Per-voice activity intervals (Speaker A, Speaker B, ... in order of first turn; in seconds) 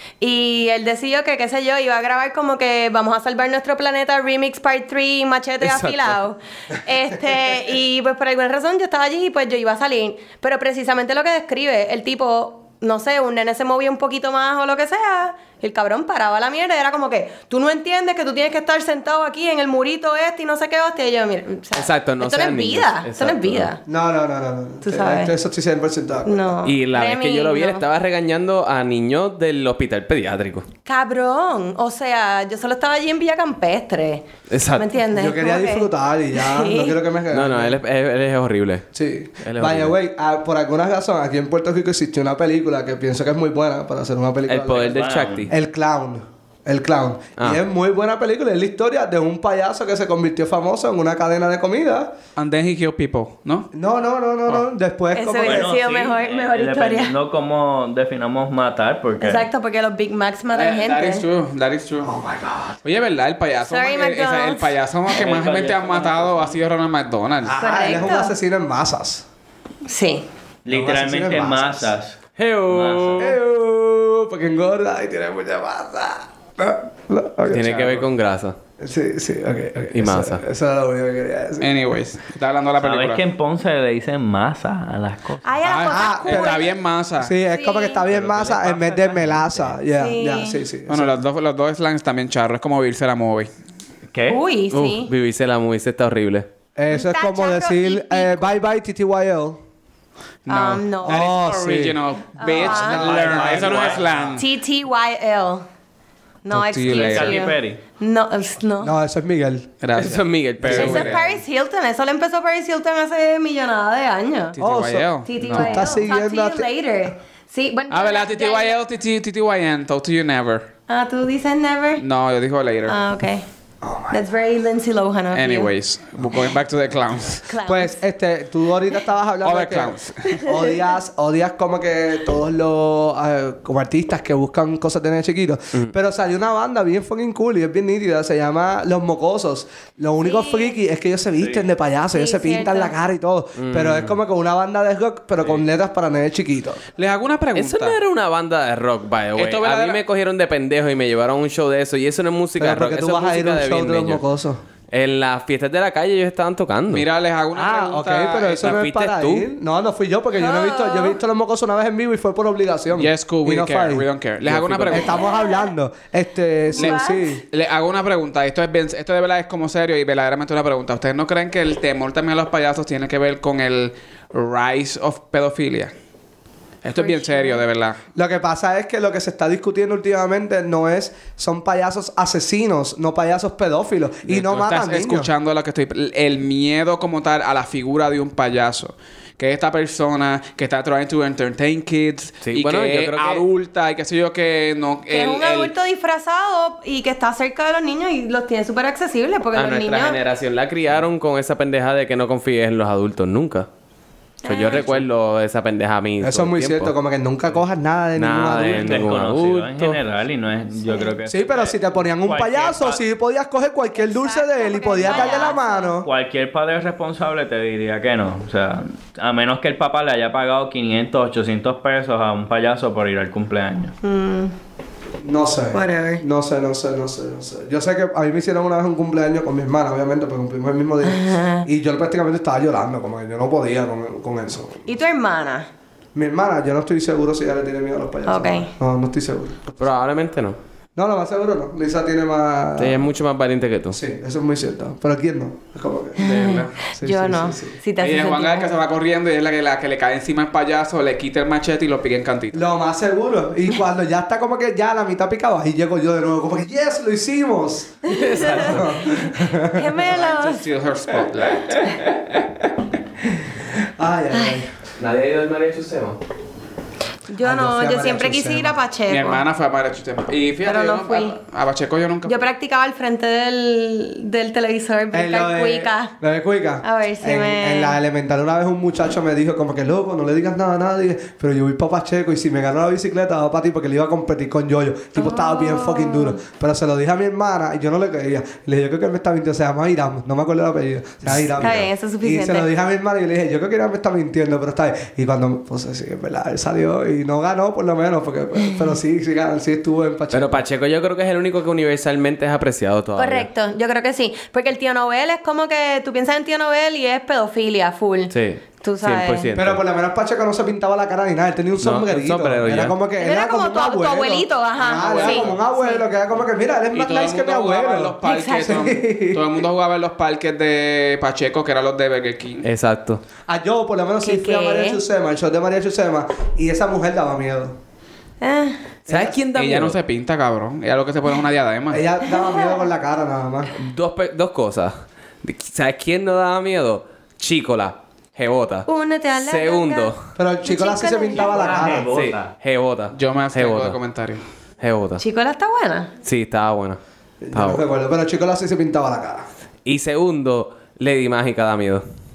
Speaker A: 0.2-23.8, 24.8-25.3, 26.2-27.9, 30.9-37.0, 55.1-57.1, 59.2-61.3, 63.7-64.7, 67.6-68.3, 69.9-70.3, 85.4-86.7, 87.5-88.1, 90.0-90.6, 94.3-95.1, 96.9-98.6, 100.5-101.2, 102.4-103.1, 104.4-105.7, 106.4-108.9, 110.7-114.6, 115.2-118.8, 120.9-122.0, 122.9-123.5, 124.1-125.7, 127.5-128.0, 130.3-130.7, 140.2-140.8, 142.1-142.9, 160.4-161.2, 165.2-165.7, 166.8-167.3, 176.9-177.6, 195.1-200.2, 204.4-205.1, 214.0-215.9, 224.0-224.5, 225.7-226.2, 231.1-231.7, 234.9-235.7, 238.3-238.7, 246.2-248.7, 258.1-260.6, 264.3-264.6, 267.3-269.4, 270.6-271.4, 272.2-276.1, 276.8-278.0, 285.2-286.4, 291.6-292.7, 303.1-309.5, 313.2-316.1, 318.2-318.9, 324.2-325.0, 328.4-328.8, 332.4-332.8, 338.9-342.0, 345.2-346.1
Speaker B: 5.6-6.2, 21.7-23.7, 26.6-30.7, 34.5-34.9, 37.3-38.9, 39.4-39.9, 44.5-45.5, 72.4-73.3, 77.5-78.6, 79.9-80.4, 94.7-96.5, 103.3-104.0, 110.0-111.2, 143.6-144.2, 147.6-154.2, 154.9-157.1, 158.6-159.5, 164.4-165.2, 192.4-193.5, 199.6-203.7, 204.5-206.9, 208.2-210.0, 239.8-240.6, 242.8-244.0, 258.4-258.8, 265.0-266.2, 300.3-303.5, 308.3-309.8, 311.8-312.9, 322.6-323.2, 329.1-330.0, 333.8-340.2, 342.1-344.0, 344.8-345.2, 346.2-347.0, 347.5-347.8, 349.9-352.0
Speaker C: 23.9-26.6, 35.1-37.8, 38.9-52.1, 53.7-55.8, 62.0-62.8, 67.4-69.2, 70.7-71.9, 73.2-77.7, 78.8-81.7, 85.9-91.2, 96.8-99.6, 101.0-104.4, 106.5-106.9, 108.8-109.7, 114.6-116.7, 123.8-124.2, 127.7-146.8, 152.6-154.6, 157.5-164.1, 164.9-167.4, 178.2-185.3, 206.2-209.2, 211.3-216.1, 225.2-234.9, 236.2-239.8, 241.0-243.1, 243.9-247.8, 252.5-260.0, 262.2-262.4, 263.6-264.7, 267.4-268.8, 275.1-300.6, 309.5-319.6, 323.5-327.8, 329.1-329.4, 331.9-333.7, 340.4-342.1, 347.4-349.5
Speaker D: 44.7-45.5, 55.4-59.5, 65.1-66.6, 70.7-73.3, 82.8-85.5, 88.1-89.7, 94.1-94.4, 103.6-104.0, 106.9-107.8, 208.7-213.0, 216.0-223.9, 341.4-342.5
Speaker E: 52.4-53.7, 60.5-62.1, 62.8-67.6, 77.5-78.1, 81.6-83.2, 85.6-87.3, 90.9-93.5, 100.5-104.5, 106.6-107.5, 109.8-111.4, 114.5-115.8, 117.9-120.7, 122.0-123.0, 125.3-127.5, 129.4-130.4, 146.9-148.0, 149.3-150.0, 156.9-158.9, 162.9-165.2, 166.8-175.9, 176.8-178.0, 184.3-195.7, 246.2-246.8, 248.0-252.6, 260.0-262.0, 269.1-272.5, 314.8-315.6, 316.9-322.7, 329.5-332.1, 343.1-344.4